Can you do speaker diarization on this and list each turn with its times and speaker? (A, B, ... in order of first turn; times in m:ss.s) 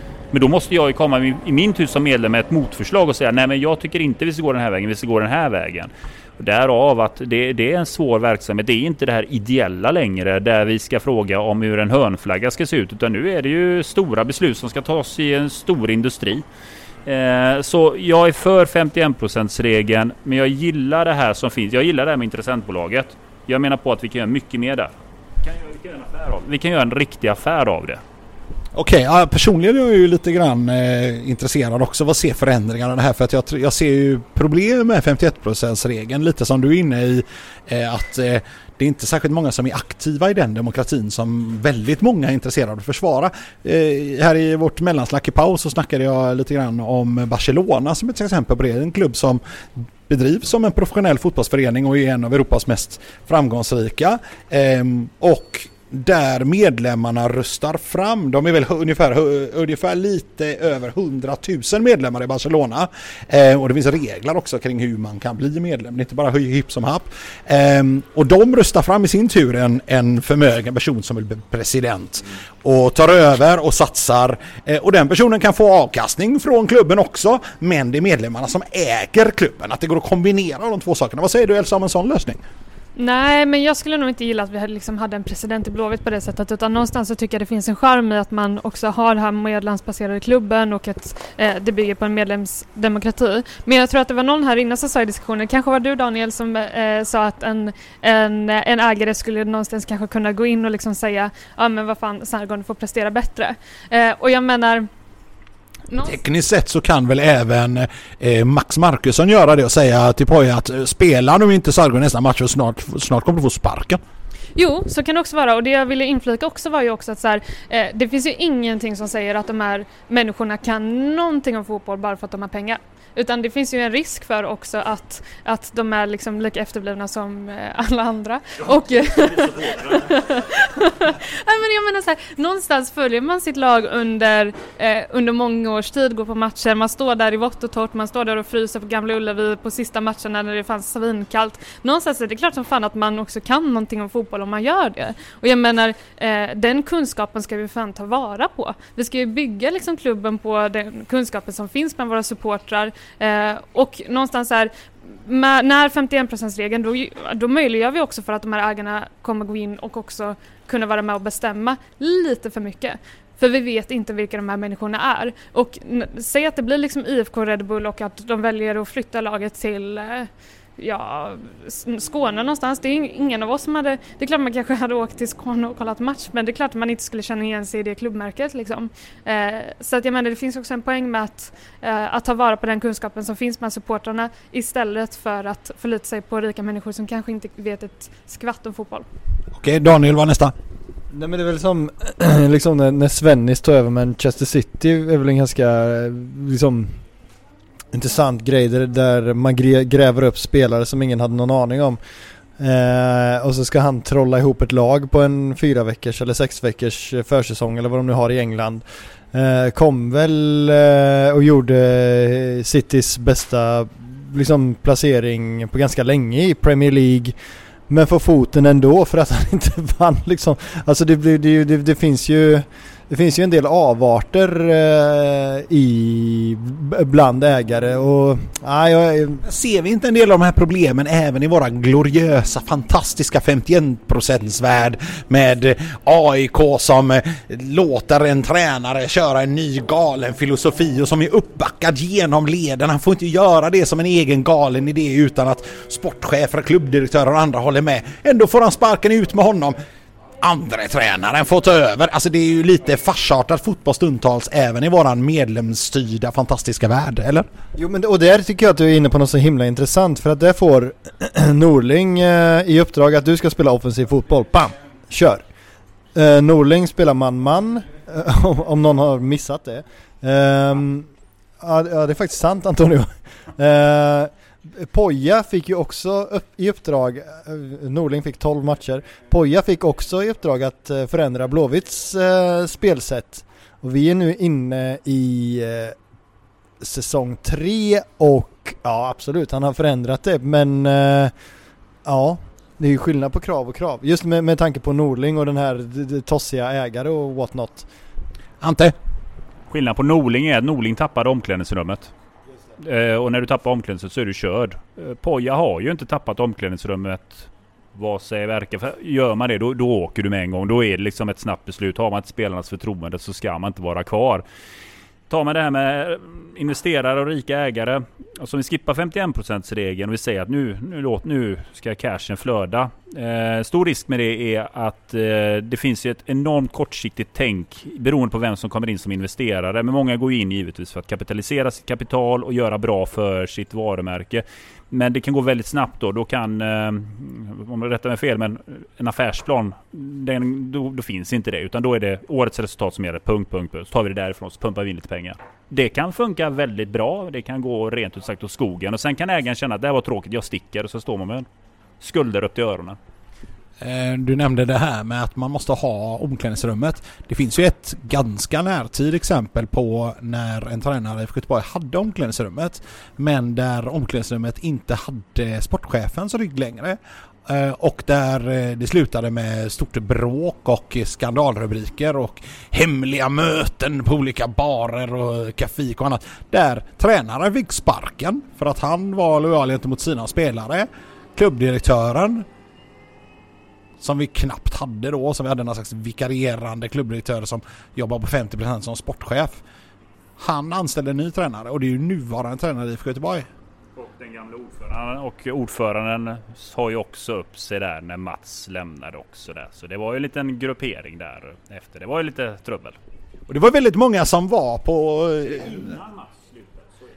0:00.3-0:16.4 A
0:17.1-0:28.0 A
0:28.7-1:22.4 B
1:23.0-1:44.9 C
1:46.0-1:54.0 B
1:54.6-3:09.1 C
3:09.5-3:10.5 B
3:11.1-3:17.0 D
3:17.9-3:22.0 D
3:22.6-3:37.4 D
3:37.9-3:49.4 D
3:49.4-4:09.8 B
4:10.4-4:17.5 B
4:17.8-4:25.4 D
4:26.2-4:31.1 D
4:31.6-4:46.0 D
4:46.8-4:51.3 D
4:52.1-4:57.9 D
4:58.6-4:58.9 B
4:59.7-5:02.1 A
5:02.8-5:14.4 A
5:15.3-5:51.5 A
5:52.0-5:53.0 A
5:53.8-6:22.5 B
6:24.0-6:29.6 B
6:30.4-6:33.5 B
6:34.0-6:43.0 A
6:43.5-6:46.0 B
6:45.7-6:46.9 A